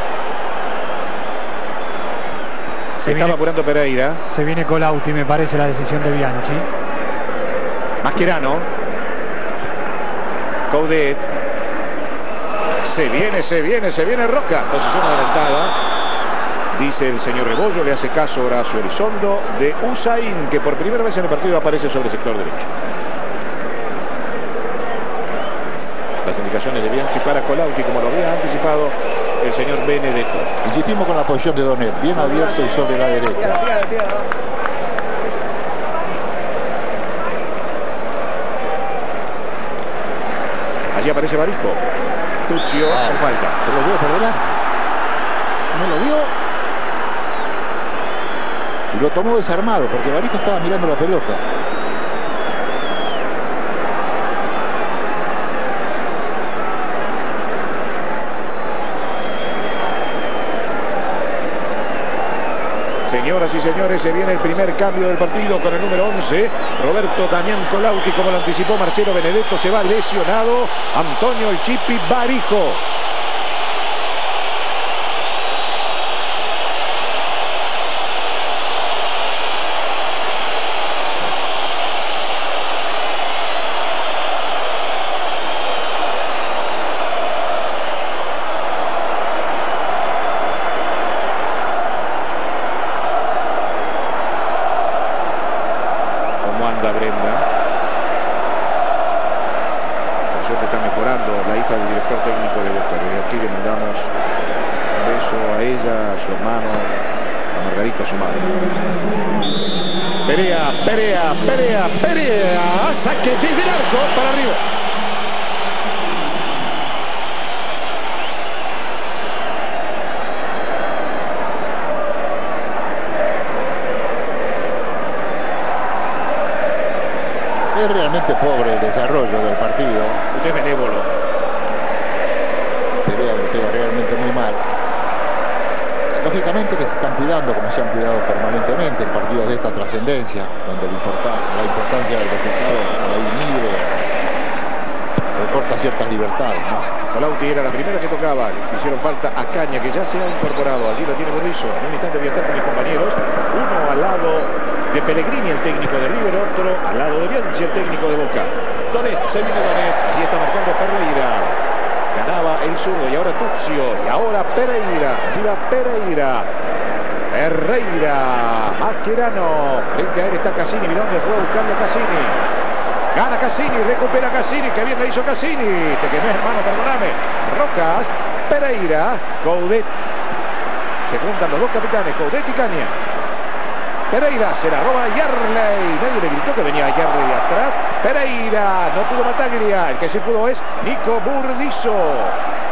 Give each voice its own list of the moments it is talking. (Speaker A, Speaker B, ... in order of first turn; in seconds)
Speaker A: 3.0-4.2, 8.0-8.7, 10.7-11.2, 12.8-15.7, 16.7-22.7, 26.2-30.5, 40.9-41.8, 42.5-43.6, 45.7-46.3, 63.0-72.8, 96.4-97.4, 100.3-104.1, 104.9-107.0, 107.5-108.5, 110.3-114.6, 130.3-131.1, 147.1-161.6, 162.1-166.5, 167.3-172.4, 173.1-180.1, 181.1-183.0, 184.1-192.4
Speaker B: 3.0-3.4, 4.3-6.7
Speaker C: 30.6-33.9, 42.9-44.6, 48.9-51.4, 127.7-130.2, 133.1-134.6, 136.2-144.1, 145.3-146.9